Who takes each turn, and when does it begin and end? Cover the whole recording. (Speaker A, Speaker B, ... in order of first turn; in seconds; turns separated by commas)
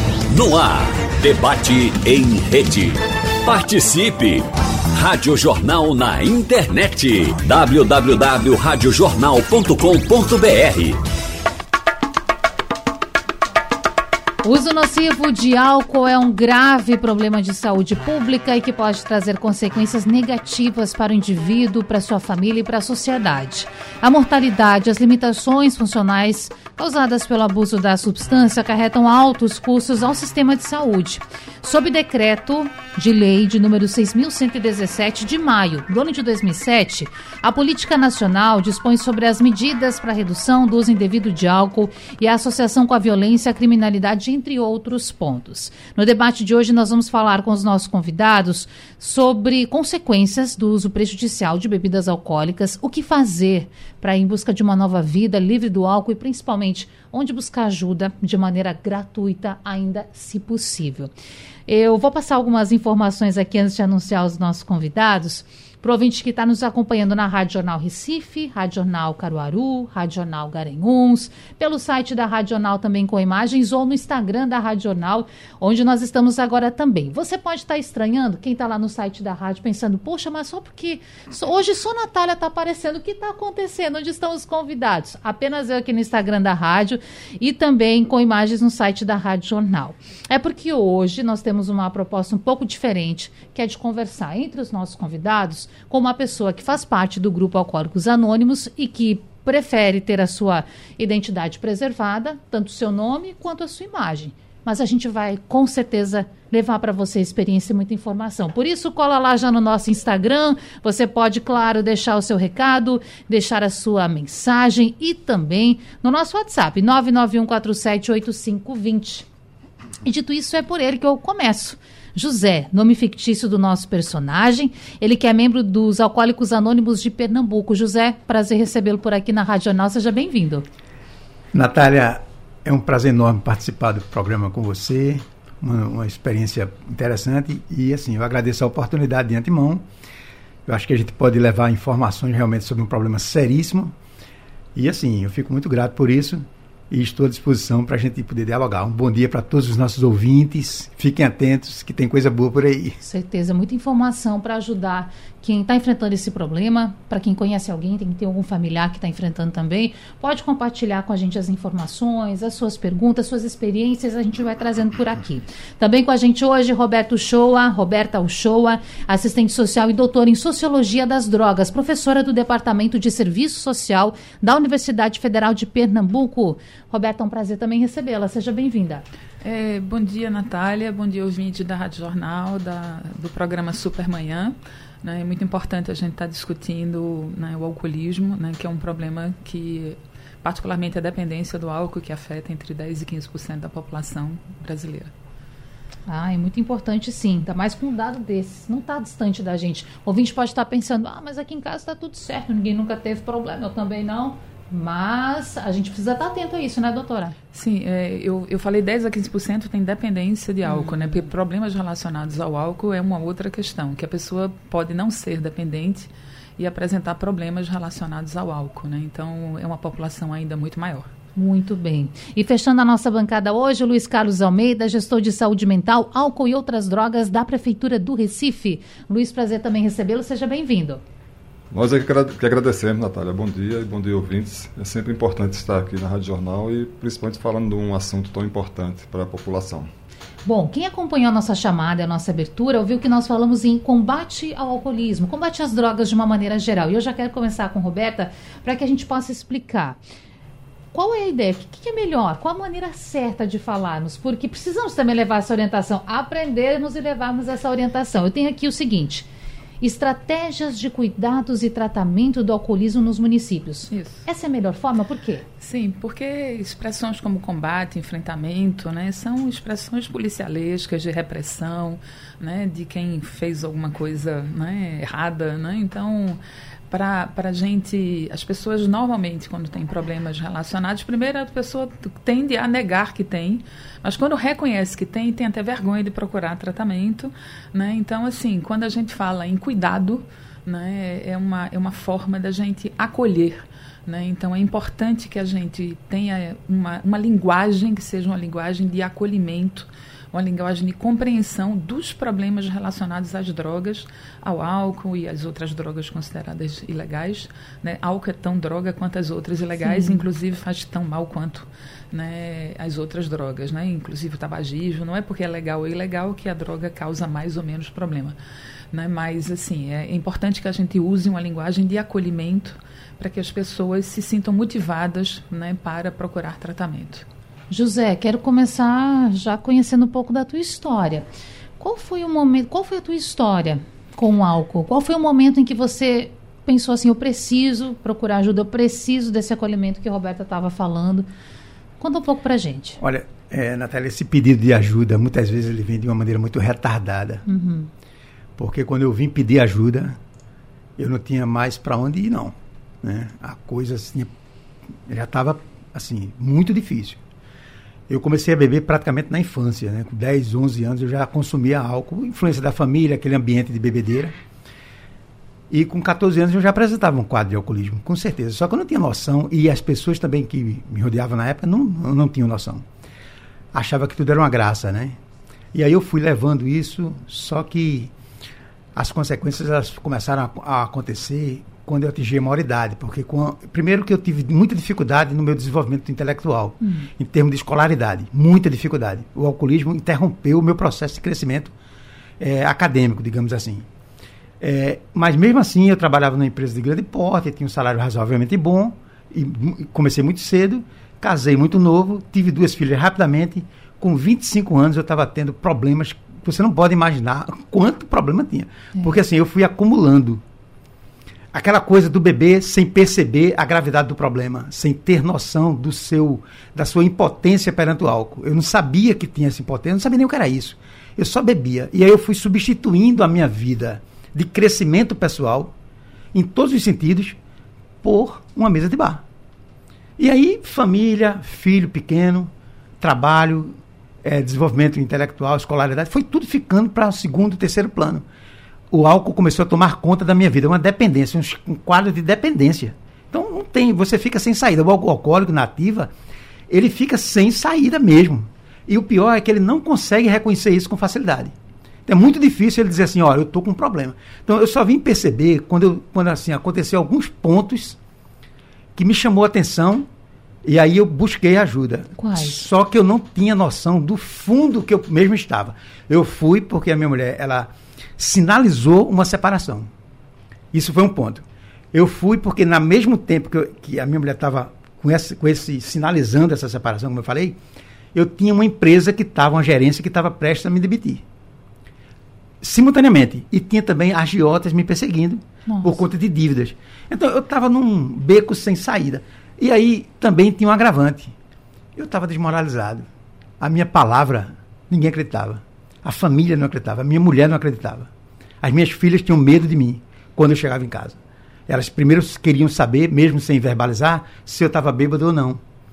Speaker A: 0.3-11.0, Speaker B: 14.4-61.1, Speaker B: 61.7-119.3, Speaker B: 120.0-130.6, Speaker C: 131.5-139.8, Speaker C: 140.7-143.9, Speaker C: 144.7-153.0, Speaker B: 153.0-179.0, Speaker D: 179.4-195.1, Speaker B: 196.1-207.3, Speaker D: 207.5-221.1, Speaker B: 210.6-211.2, Speaker B: 221.3-231.0, Speaker E: 231.7-239.9, Speaker B: 240.4-250.0, Speaker B: 250.9-259.3, Speaker B: 259.8-265.4, Speaker D: 263.9-264.2, Speaker D: 265.6-276.4, Speaker D: 276.9-318.4, Speaker B: 309.8-310.2, Speaker D: 318.9-327.2, Speaker B: 327.7-331.3, Speaker B: 331.8-341.3, Speaker B: 342.0-343.0, Speaker C: 343.0-347.4, Speaker B: 347.4-347.9, Speaker C: 348.6-350.2, Speaker C: 351.0-354.3, Speaker C: 355.1-357.2, Speaker C: 358.1-364.4, Speaker C: 365.7-372.8, Speaker C: 373.7-375.2, Speaker C: 375.7-378.1, Speaker C: 378.9-391.7, Speaker B: 386.8-387.1, Speaker C: 392.4-393.8, Speaker C: 394.6-410.4, Speaker C: 411.5-425.7, Speaker C: 426.3-427.4, Speaker C: 428.0-429.2, Speaker C: 430.2-438.2, Speaker C: 438.9-446.1, Speaker C: 446.7-451.5, Speaker C: 452.1-458.0, Speaker C: 458.9-460.1, Speaker C: 460.6-469.9, Speaker B: 462.2-462.7, Speaker C: 470.7-477.6, Speaker C: 478.1-481.2, Speaker C: 482.6-491.3, Speaker B: 485.6-486.0, Speaker C: 491.9-493.1, Speaker C: 493.6-498.1, Speaker C: 498.6-505.6